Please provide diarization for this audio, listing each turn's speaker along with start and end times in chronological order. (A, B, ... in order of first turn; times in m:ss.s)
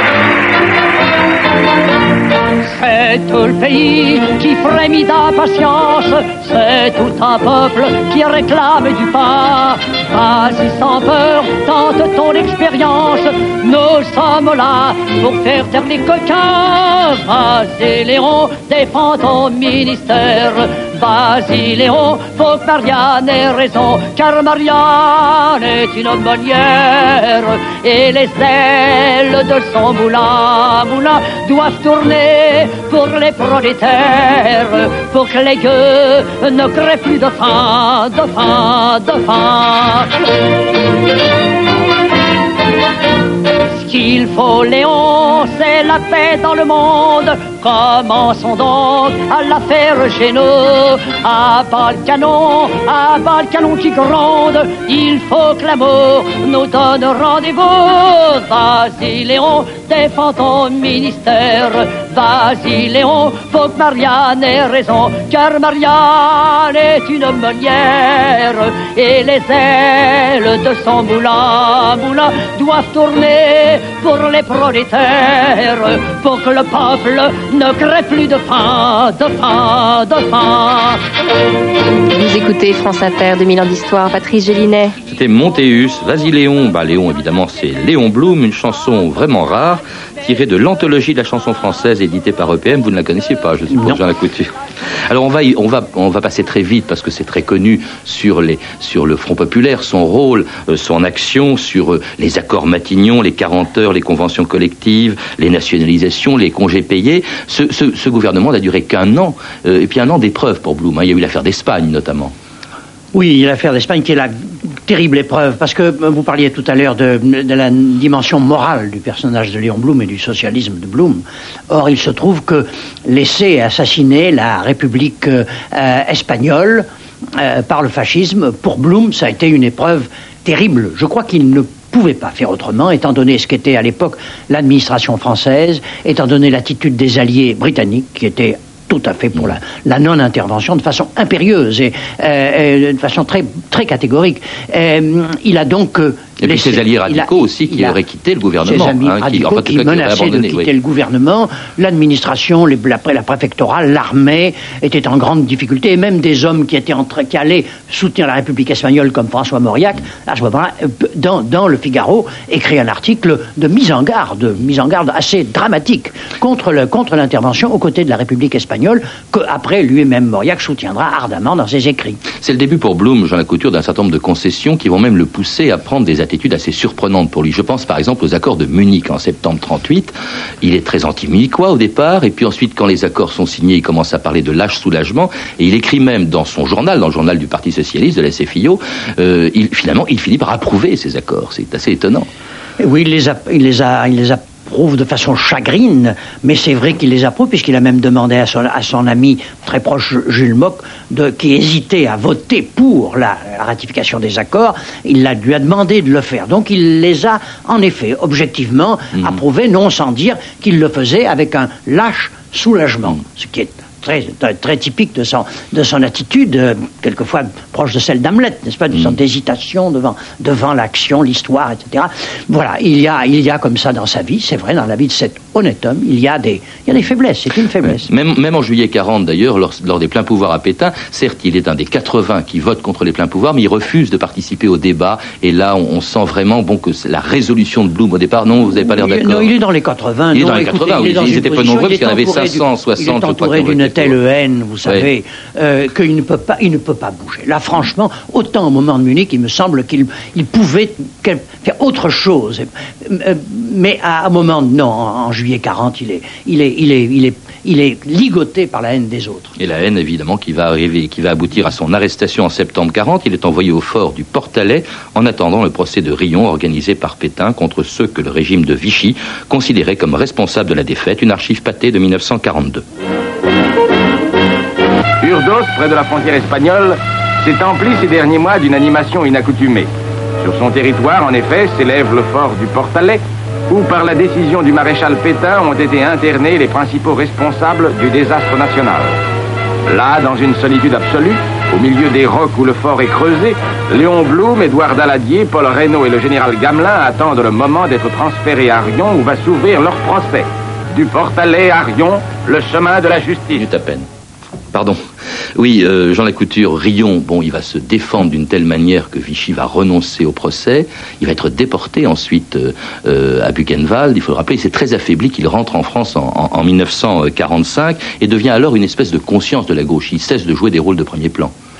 0:02.7-0:40.1 A
0:43.8-1:21.0 A
1:22.1-1:25.0 B
1:25.1-1:34.5 C
1:33.7-1:34.0 D
1:35.1-1:52.3 C
1:53.1-1:54.4 D
1:54.9-2:28.0 D
2:26.4-2:30.7 C
2:28.6-2:52.2 D
2:52.4-3:12.3 C
3:12.8-3:48.1 D
3:47.9-3:59.5 C
3:59.0-4:19.6 D
4:00.3-4:04.2 C
4:19.6-4:32.8 C
4:35.2-4:39.9 E
4:40.4-4:49.1 E
4:49.9-5:03.6 E
5:03.5-5:04.1 C
5:04.7-5:05.0 C
5:05.6-5:21.5 C